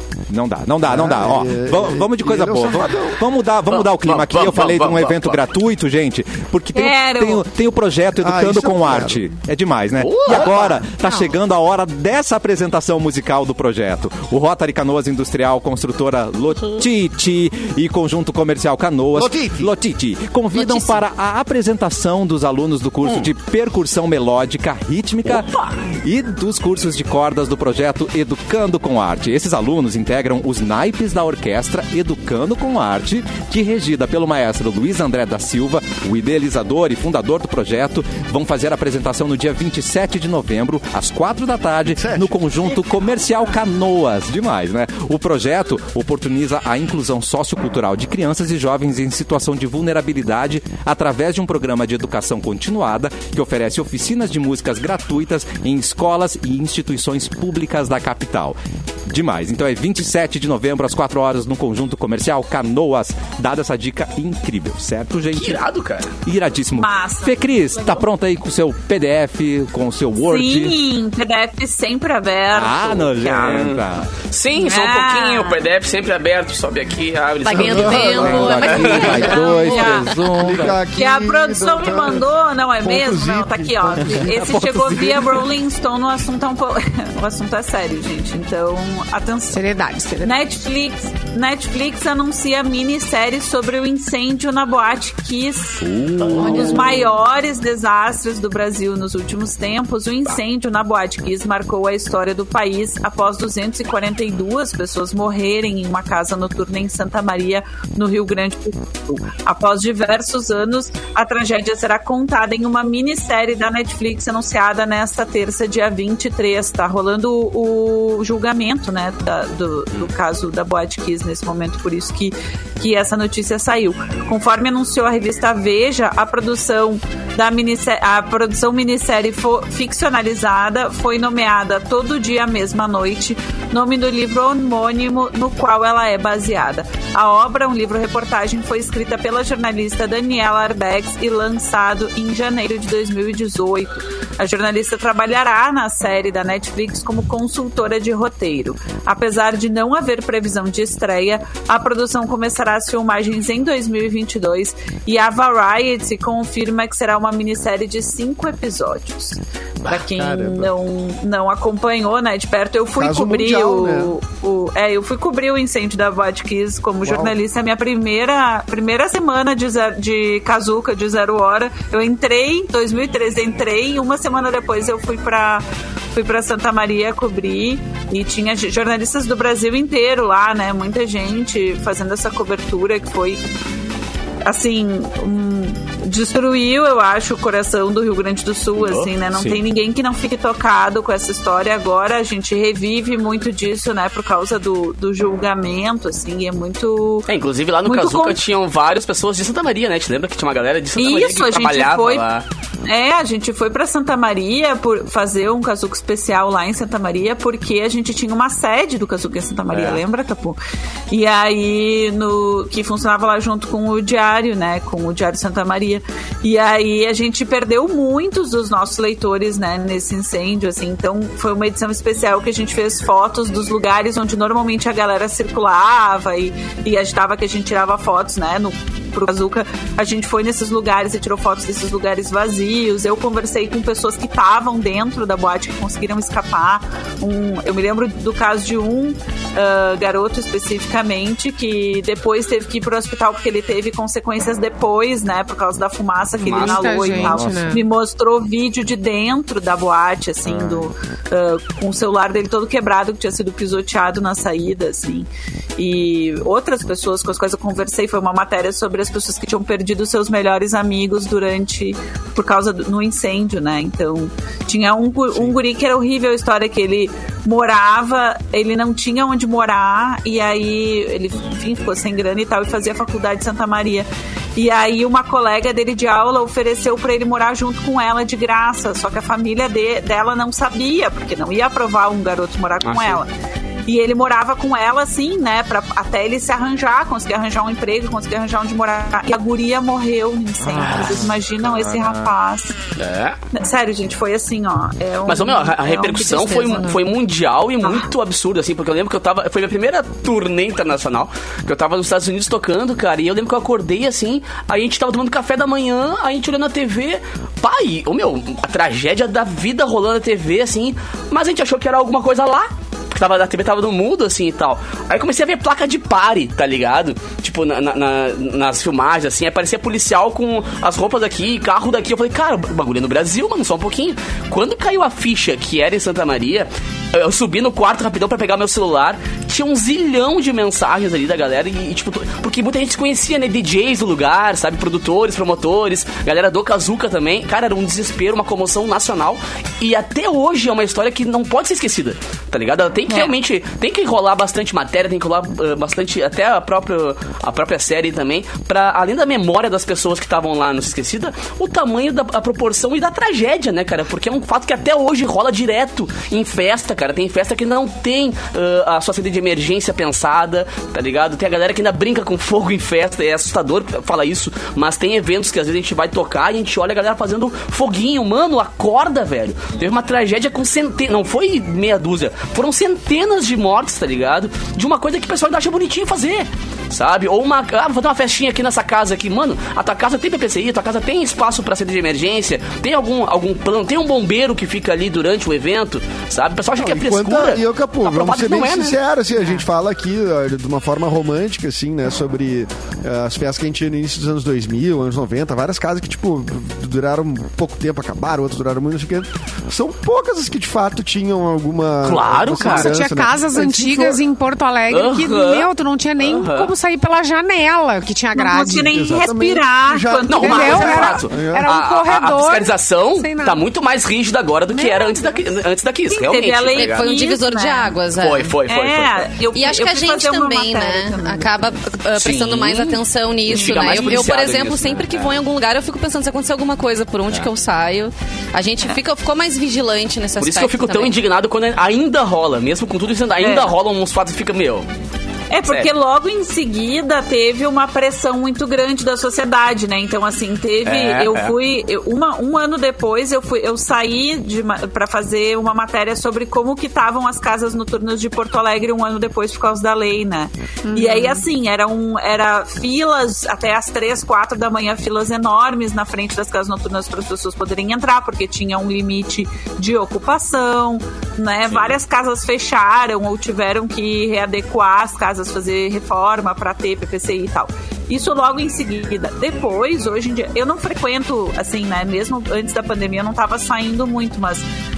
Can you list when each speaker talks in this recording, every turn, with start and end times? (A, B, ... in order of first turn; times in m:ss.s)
0:00.3-1:05.6 A
0:00.8-0:03.2 B
0:03.7-0:05.4 C
0:06.8-0:07.4 D
0:08.2-0:09.2 B
0:10.0-0:10.6 C
0:10.3-0:10.8 B
0:19.1-0:19.7 B
0:20.5-0:21.0 E
0:25.3-0:25.7 C
0:41.9-0:42.5 B
1:05.3-1:06.1 C
1:06.2-1:10.8 A
1:06.7-1:08.0 D
1:10.2-1:13.7 D
1:12.5-1:14.1 A
1:13.4-1:19.3 C
1:14.6-1:15.6 D
1:17.4-1:20.0 E
1:17.5-1:19.6 B
1:17.6-1:20.8 A
1:19.0-1:20.2 D
1:20.2-1:22.3 B
1:20.9-1:29.6 D
1:22.8-1:24.3 B
1:24.0-1:25.4 A
1:29.5-1:30.3 F
1:30.2-3:03.4 D
1:35.9-1:37.0 C
2:39.9-2:40.7 B
2:43.0-2:44.1 B
2:47.0-2:47.4 B
3:04.5-3:17.3 D
3:08.8-3:09.6 C
3:17.3-3:22.5 C
3:17.8-3:18.4 D
3:21.0-3:22.3 D
3:22.8-4:43.3 D
3:29.7-3:30.0 C
4:06.4-4:07.8 F
4:06.5-4:07.4 C
4:42.8-4:43.2 C
4:43.9-4:52.8 D
4:50.6-4:52.3 A
4:50.8-4:51.2 C
4:53.0-4:53.4 C
4:53.5-4:57.0 D
4:55.3-6:29.0 C
6:26.8-6:44.2 B
6:42.0-6:43.0 C
6:42.6-6:48.9 F
6:44.9-6:46.7 C
6:48.3-6:51.3 D
6:48.9-6:51.7 B
6:50.3-6:57.1 C
6:50.4-6:53.6 F
6:54.7-6:55.5 F
6:56.1-6:58.0 D
6:56.8-6:58.6 E
6:58.2-6:59.3 C
6:58.7-7:01.6 D
6:59.5-7:11.2 E
7:02.2-7:05.4 C
7:03.5-7:04.3 D
7:10.4-7:14.9 C
7:13.4-7:13.8 D
7:15.5-7:54.6 D
7:20.8-7:21.5 C
7:30.8-7:31.4 F